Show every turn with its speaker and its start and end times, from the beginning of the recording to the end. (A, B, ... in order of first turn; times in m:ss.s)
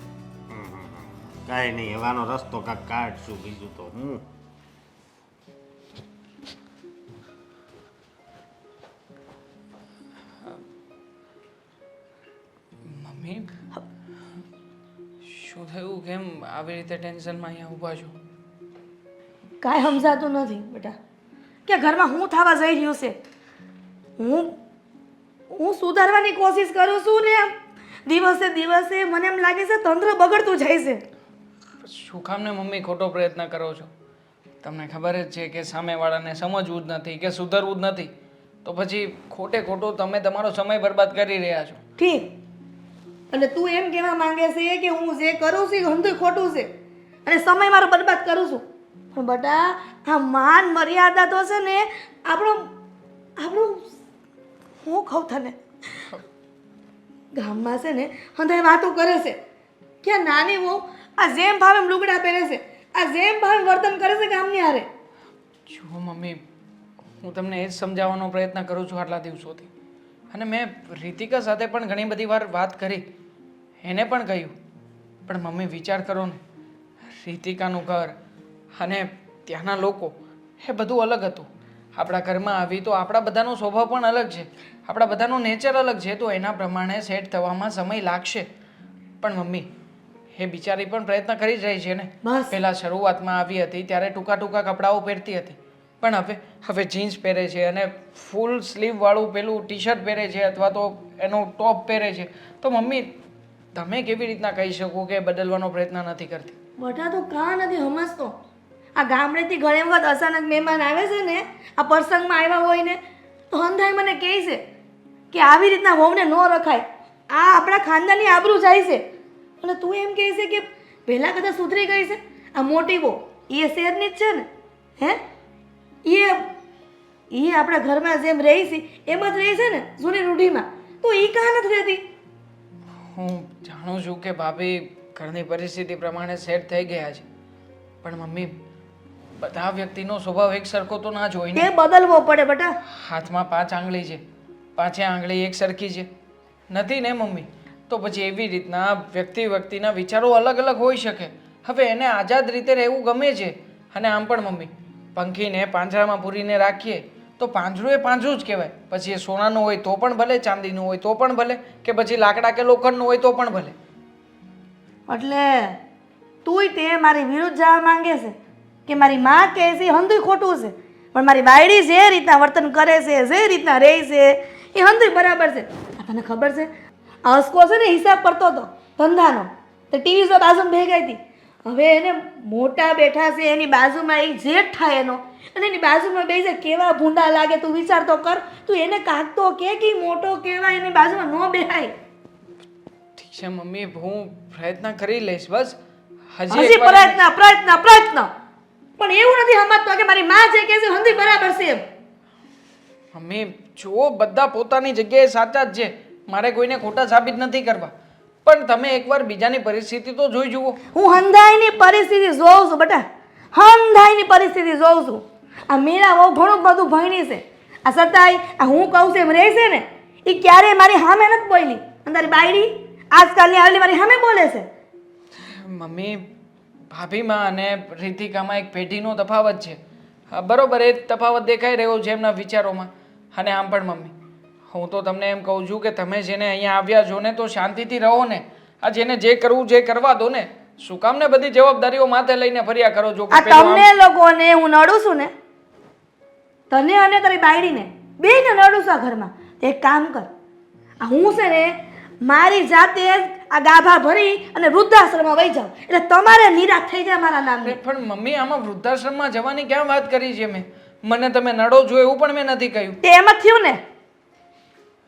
0:00.5-0:04.2 A
0:12.8-0:13.5 B
0:15.2-0:18.2 B
0:19.6-0:21.0 C
0:21.7-0:23.2 C
0:24.2-0:24.5 C
0:25.5-0:27.5 C
0:28.1-0:31.0 C
0:31.8-0:33.9 B
0:34.6-0:38.1 B
0:38.6-0:41.8 B
0:42.0-0:42.3 C
0:43.3-0:46.7 C
0:47.3-0:48.6 C
0:49.1-0:52.7 C
0:53.4-0:53.9 C
0:54.8-0:56.1 C
0:57.4-0:59.4 C
1:00.0-1:04.9 C
1:05.7-1:06.4 B
1:07.2-1:09.7 B
1:10.3-1:13.1 B
1:13.8-1:14.5 B
1:15.3-1:16.4 B
1:17.2-1:18.2 B
1:18.8-1:28.5 B
1:29.2-1:29.7 B
1:30.3-1:43.1 B
1:32.2-1:32.6 C
1:43.7-1:46.6 B
1:46.8-1:48.4 C
1:49.0-1:53.0 C
1:53.5-1:54.6 C
1:55.3-1:59.0 C
1:59.6-2:04.5 C
2:06.0-2:06.4 C
2:07.3-2:12.0 C
2:13.1-2:17.2 B
2:18.0-2:18.6 B
2:19.4-2:21.7 B
2:21.6-2:22.8 C
2:23.0-2:24.2 B
2:24.8-2:26.1 B
2:26.7-2:43.8 B
2:45.1-2:45.8 C
2:46.4-2:48.4 C
2:48.9-2:56.7 C
2:57.2-3:11.9 C
3:13.2-3:15.8 B
3:16.3-3:17.2 B
3:16.5-3:18.3 C
3:19.0-3:21.8 C
3:23.1-3:27.9 B
3:28.4-3:30.8 B
3:30.9-3:44.7 C
3:45.4-3:46.3 B
3:46.9-3:49.8 B
3:50.3-3:54.1 B
3:54.7-4:03.9 B
4:03.3-4:05.3 C
4:06.7-4:10.3 C
4:11.0-4:17.8 C
4:17.6-4:23.0 B
4:23.0-4:23.8 C